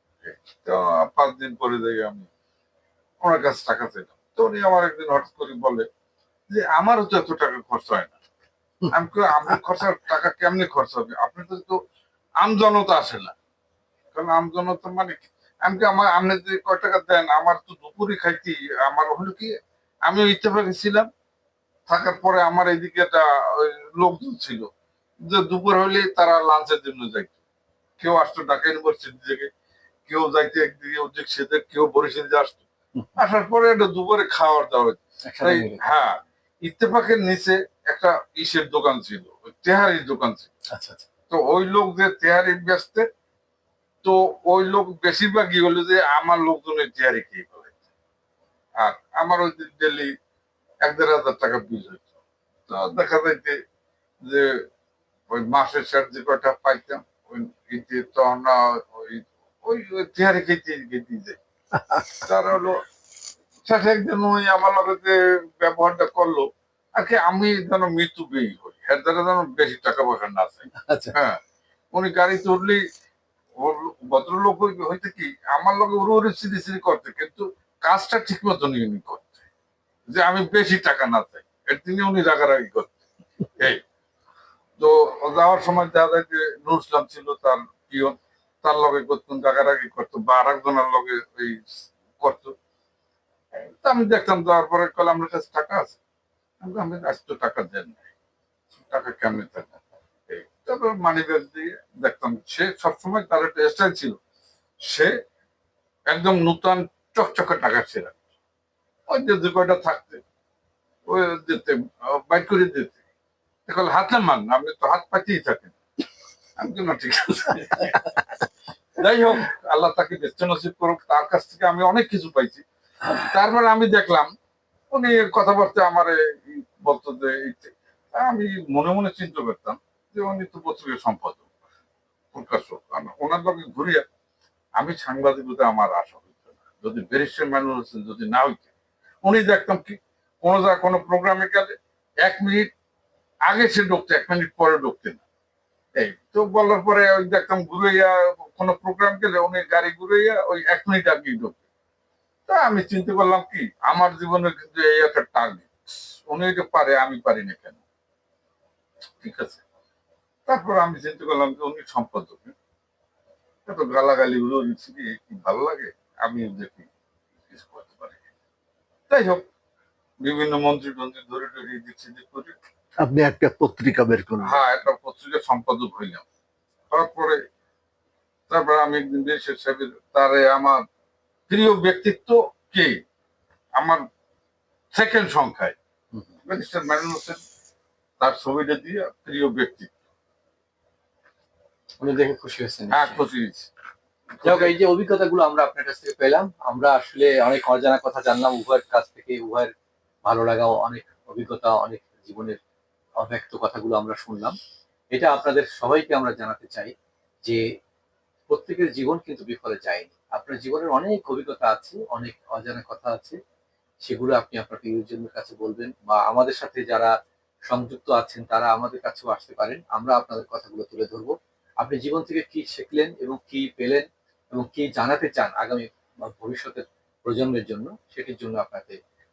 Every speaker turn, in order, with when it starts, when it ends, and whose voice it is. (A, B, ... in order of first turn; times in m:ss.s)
0:00.2-0:02.3 A
0:03.2-0:05.9 A
0:06.5-0:08.2 A
0:08.9-0:11.8 A
0:12.4-0:13.3 A
0:14.1-0:19.5 A
0:20.1-0:21.1 A
0:21.9-0:24.7 A
0:25.2-0:27.4 A
0:28.0-0:29.5 A
0:30.1-0:32.6 A
0:33.2-0:40.5 A
0:35.2-0:35.8 B
0:40.7-0:41.1 B
0:41.3-0:43.1 A
0:44.0-0:47.7 A
0:48.8-0:50.1 A
0:50.8-0:52.1 A
0:52.7-0:53.6 A
0:54.2-0:54.5 A
0:55.3-1:01.4 A
1:01.8-1:02.2 C
1:02.3-1:02.8 A
1:03.6-1:11.4 A
1:10.8-1:11.1 B
1:11.9-1:12.8 A
1:13.6-1:19.4 A
1:20.1-1:23.0 A
1:24.8-1:31.6 A
1:32.2-1:32.5 A
1:33.5-1:36.0 A
1:36.6-1:38.1 A
1:38.9-1:39.8 A
1:40.3-1:44.2 A
1:44.8-1:45.1 A
1:46.1-1:48.2 A
1:49.1-1:50.2 A
1:51.1-1:53.0 A
1:53.7-1:55.8 A
1:56.6-1:58.2 A
1:59.0-2:04.3 A
2:04.9-2:11.4 A
2:12.3-2:14.0 A
2:14.8-2:18.7 A
2:19.2-2:22.7 A
2:23.5-2:25.2 A
2:26.0-2:31.6 A
2:32.5-2:37.8 A
2:39.2-2:39.6 A
2:40.5-2:42.5 A
2:43.7-2:46.9 A
2:47.5-2:48.2 A
2:49.1-2:49.5 A
2:50.2-2:52.6 A
2:53.0-2:54.6 C
2:54.4-2:56.2 A
2:56.9-2:57.4 A
2:58.5-3:00.8 A
3:01.5-3:03.0 A
3:03.8-3:04.0 A
3:04.9-3:05.8 A
3:06.5-3:07.4 A
3:08.2-3:09.9 A
3:12.0-3:13.2 B
3:12.9-3:13.7 A
3:14.4-3:14.8 A
3:14.4-3:19.7 B
3:20.2-3:22.6 B
3:23.2-3:24.6 B
3:25.1-3:26.9 B
3:28.5-3:33.4 B
3:34.0-3:37.1 B
3:37.7-3:49.0 B